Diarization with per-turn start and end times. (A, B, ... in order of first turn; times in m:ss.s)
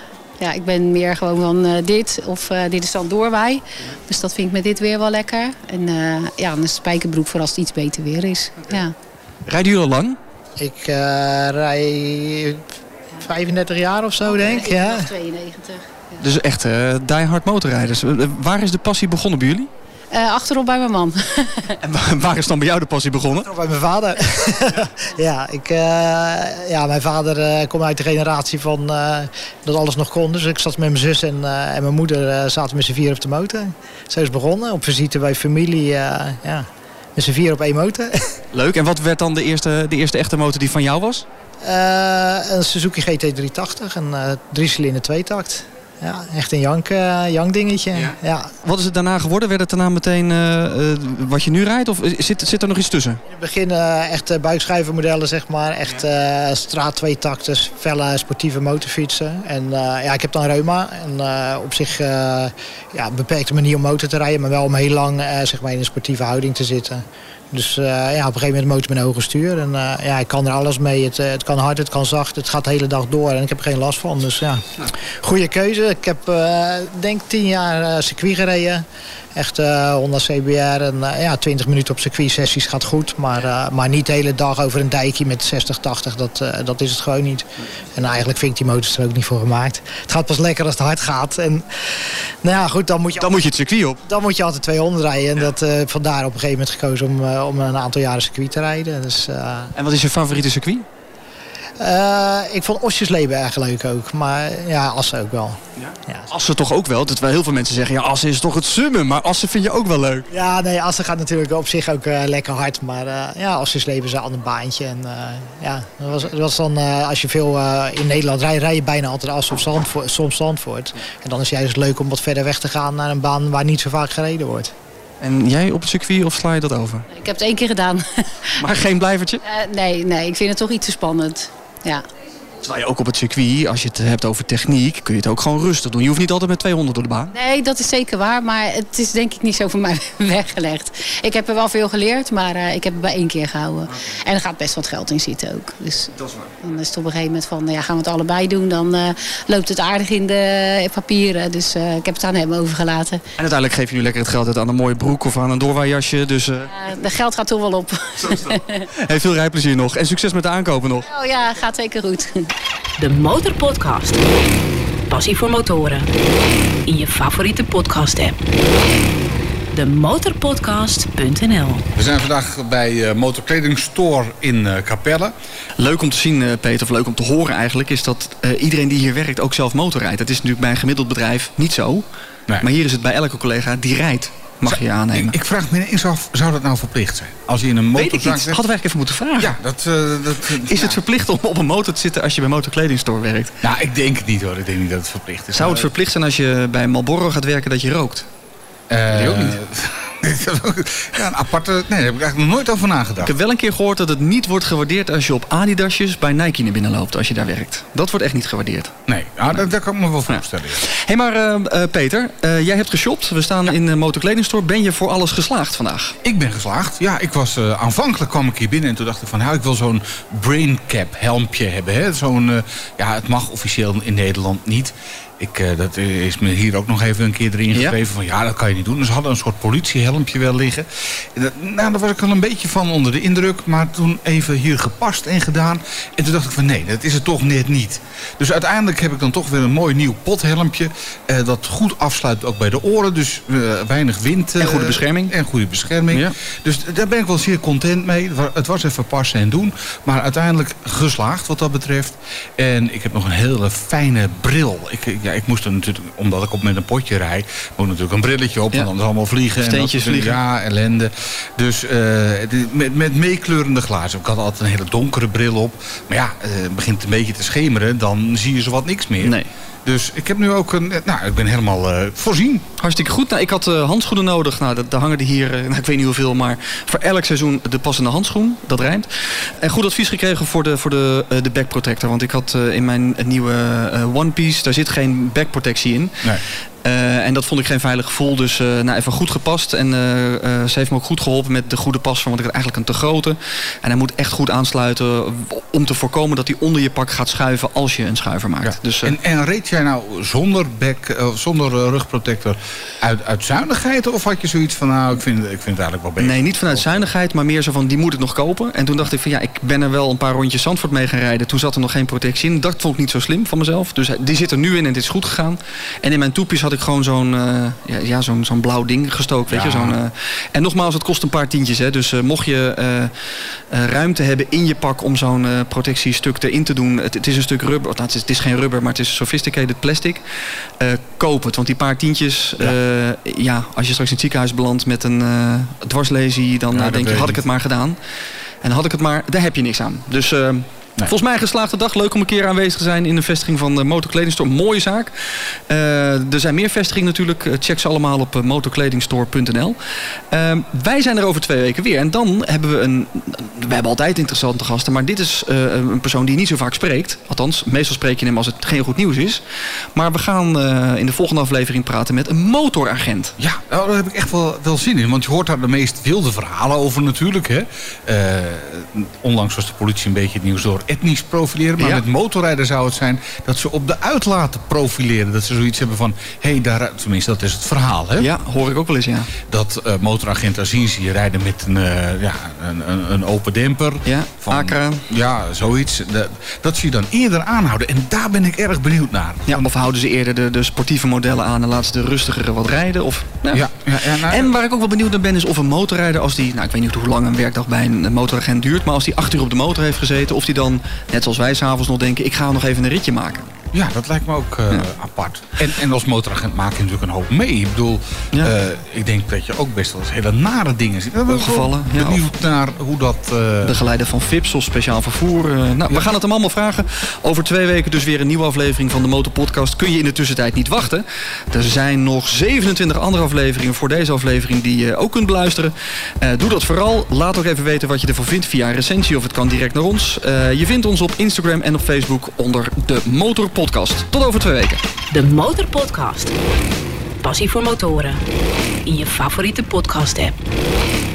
0:00.4-0:08.9 A
0:09.4-0:10.2 B
0:10.6-0:12.6 C
0:13.2-0:15.1 C
0:14.3-0:15.8 A
0:16.2-0:19.7 B
0:20.1-0:21.8 A
0:21.8-0:23.5 B
0:23.4-0:38.3 C
0:38.5-0:41.2 B
0:41.6-0:48.5 C
0:47.9-0:53.2 B
0:53.3-1:14.6 C
1:15.2-1:31.6 C
1:32.4-1:33.4 C
1:33.2-1:34.0 B
1:34.0-1:39.7 C
1:39.8-1:40.8 B
1:41.8-1:46.3 C
1:45.8-1:50.3 B
1:50.3-2:04.7 C
2:05.2-2:07.0 B
2:07.1-2:08.6 A
2:08.6-2:09.4 B
2:09.4-2:12.0 A
2:12.6-2:17.3 B
2:17.3-2:33.2 A
2:23.9-2:24.2 B
2:26.1-2:26.5 B
2:33.4-2:36.7 B
2:36.7-2:38.8 A
2:38.2-2:41.1 B
2:41.0-2:42.5 A
2:43.0-2:44.2 D
2:45.1-2:46.1 D
2:46.8-2:48.4 D
2:49.7-2:51.8 D
2:52.0-2:55.3 E
2:55.8-3:02.0 B
3:02.6-3:05.4 B
3:04.6-3:08.6 E
3:07.9-3:09.6 B
3:09.4-3:11.0 E
3:10.6-3:13.6 B
3:13.6-3:15.9 E
3:15.5-3:18.3 B
3:18.9-3:23.3 E
3:19.1-3:19.6 B
3:23.2-3:28.9 B
3:29.1-3:30.8 E
3:30.3-3:36.2 B
3:36.2-4:32.6 E
3:47.7-3:48.0 B
4:04.6-4:05.3 B
4:19.6-4:20.4 B
4:29.2-4:29.5 B
4:32.8-4:46.3 B
4:46.8-4:59.1 B
4:58.6-5:06.9 E
5:06.2-5:23.1 B
5:19.5-5:20.0 E
5:23.7-5:30.2 B
5:30.8-5:38.0 B
5:36.7-5:37.4 E
5:38.6-5:49.8 B
5:50.3-5:59.4 B
5:59.9-6:03.4 B
6:03.4-6:18.3 E
6:11.8-6:12.0 B
6:18.2-6:19.3 B
6:19.4-6:29.7 E
6:24.0-6:25.0 B
6:29.5-6:43.5 B
6:33.5-6:34.5 E
6:43.7-6:53.8 E
6:51.3-6:52.3 B
6:53.6-7:14.8 B
7:15.1-7:16.3 D
7:17.2-7:18.2 D
7:18.8-7:20.4 D